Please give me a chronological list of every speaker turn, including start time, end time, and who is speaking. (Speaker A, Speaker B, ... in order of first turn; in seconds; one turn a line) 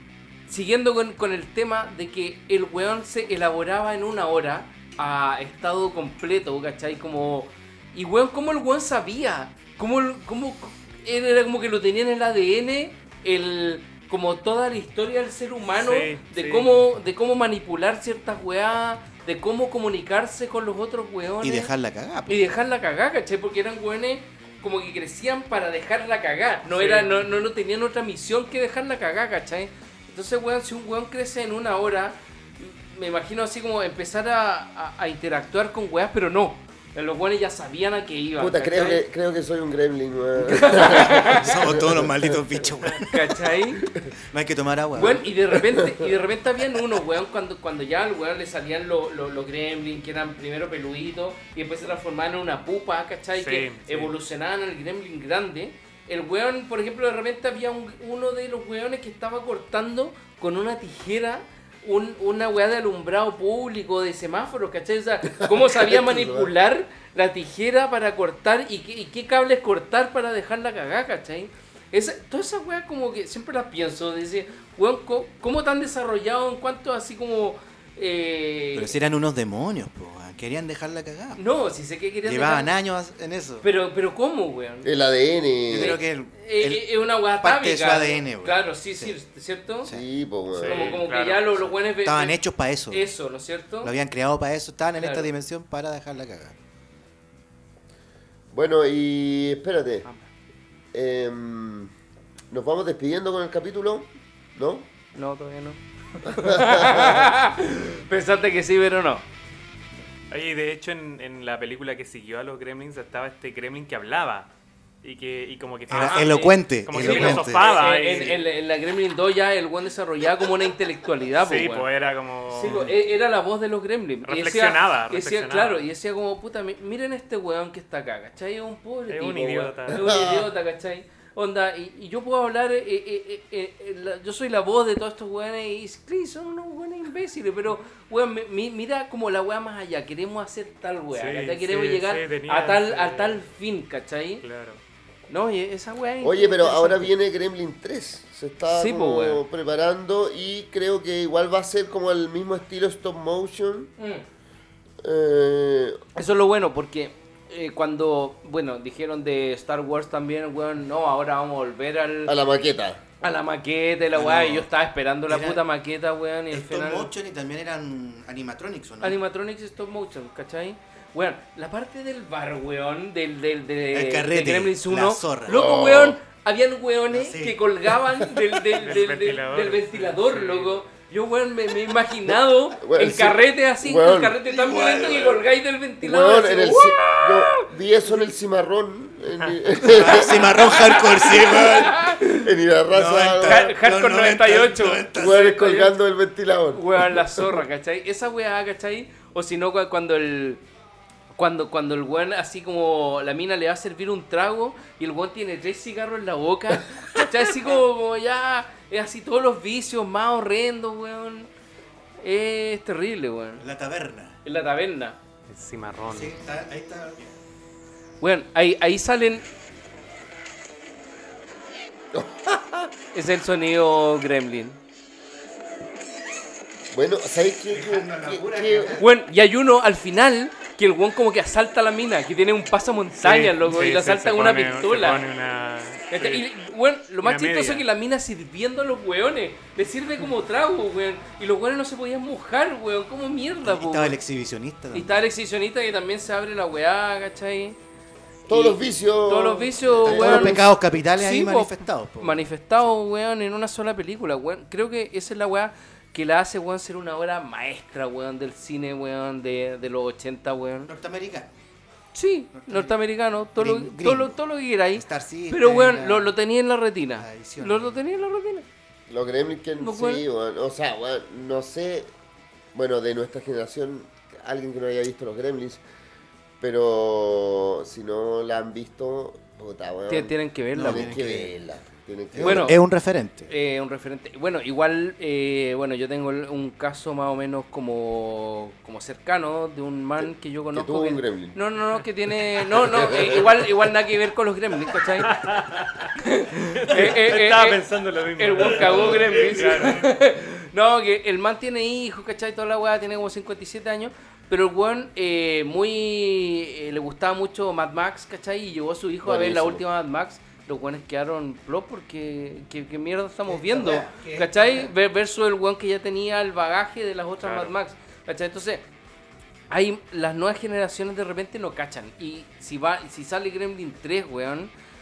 Speaker A: 0.5-21.7
Speaker B: 15.8-16.7
Speaker C: 21.4-22.4
Speaker A: 22.2-39.0
Speaker B: 26.7-27.1
Speaker D: 38.4-42.4
Speaker A: 40.4-41.6
Speaker C: 40.9-43.4
Speaker A: 43.0-43.8
Speaker C: 44.3-45.2
Speaker A: 44.9-78.9
Speaker D: 45.0-46.0
Speaker B: 53.3-54.1
Speaker D: 65.3-66.5
Speaker C: 78.7-81.4
Speaker A: 81.3-82.7
Speaker C: 82.2-83.7
Speaker A: 83.6-84.9
Speaker D: 84.8-86.0
Speaker C: 85.7-89.1
Speaker A: 85.8-89.9
Speaker D: 89.9-91.0
Speaker B: 90.5-91.6
Speaker A: 90.6-92.4
Speaker C: 92.0-93.1
Speaker A: 92.9-93.9
Speaker C: 93.8-96.5
Speaker A: 95.0-95.3
Speaker D: 98.5-100.0
Speaker D: 100.9-101.9
Speaker D: 102.5-104.9
Speaker A: 105.1-109.2
Speaker D: 106.2-107.3
Speaker B: 110.3-114.5
Speaker B: 115.0-118.4
Speaker C: 115.9-118.3
Speaker A: 115.9-121.9
Speaker B: 121.3-122.9
Speaker A: 122.5-144.4
Speaker C: 122.6-122.9
Speaker B: 124.2-125.8
Speaker B: 129.1-130.0
Speaker D: 129.9-130.5
Speaker B: 141.1-143.4
Speaker B: 144.4-144.8
Speaker A: 145.3-147.1
Speaker D: 146.2-153.9
Speaker A: 148.7-149.4
Speaker A: 154.0-154.2
Speaker D: 155.0-156.0
Speaker A: 156.1-162.3
Speaker D: 162.2-163.0
Speaker A: 163.2-167.1
Speaker C: 164.1-164.7
Speaker C: 165.3-165.6
Speaker C: 166.5-169.2
Speaker A: 169.0-188.3
Speaker C: 173.9-176.0
Speaker D: 175.5-176.2
Speaker C: 177.1-177.9
Speaker B: 178.8-180.8
Speaker D: 182.7-184.4
Speaker C: 184.4-185.4
Speaker D: 186.0-190.7
Speaker C: 189.9-192.1
Speaker A: 190.4-192.5
Speaker D: 192.2-193.7
Speaker C: 192.9-195.6
Speaker A: 193.4-195.9
Speaker D: 195.1-197.6
Speaker A: 196.7-200.6
Speaker A: 201.3-211.5
Speaker A: 212.2-213.6
Speaker C: 213.6-214.4
Speaker A: 214.4-215.2
Speaker B: 215.5-216.3
Speaker C: 216.1-217.3
Speaker A: 218.2-219.4
Speaker D: 222.1-222.9
Speaker A: 223.1-224.8
Speaker D: 226.9-229.0
Speaker C: 227.7-229.1
Speaker A: 229.0-235.2
Speaker B: 233.2-236.4
Speaker A: 236.1-244.2
Speaker B: 237.2-237.8
Speaker C: 243.6-245.2
Speaker A: 244.9-247.8
Speaker D: 248.5-250.6
Speaker A: 248.5-260.9
Speaker C: 250.0-252.5
Speaker C: 260.9-261.5
Speaker A: 262.1-268.6
Speaker C: 262.5-262.9
Speaker C: 263.5-264.3
Speaker C: 264.9-266.3
Speaker C: 267.2-268.0
Speaker D: 269.1-272.1
Speaker A: 269.8-270.2
Speaker D: 272.7-275.8
Speaker D: 276.6-282.7
Speaker A: 280.1-281.1
Speaker C: 280.7-281.5
Speaker C: 282.3-283.5
Speaker A: 282.4-282.8
Speaker A: 283.5-295.3
Speaker D: 290.7-291.6
Speaker D: 292.8-293.6
Speaker C: 293.0-293.4
Speaker B: 295.2-296.1
Speaker A: 296.2-297.8
Speaker B: 296.7-300.1
Speaker A: 298.4-318.8
Speaker D: 309.2-309.8
Speaker C: 313.5-314.9
Speaker B: 317.4-317.7
Speaker A: 319.7-324.7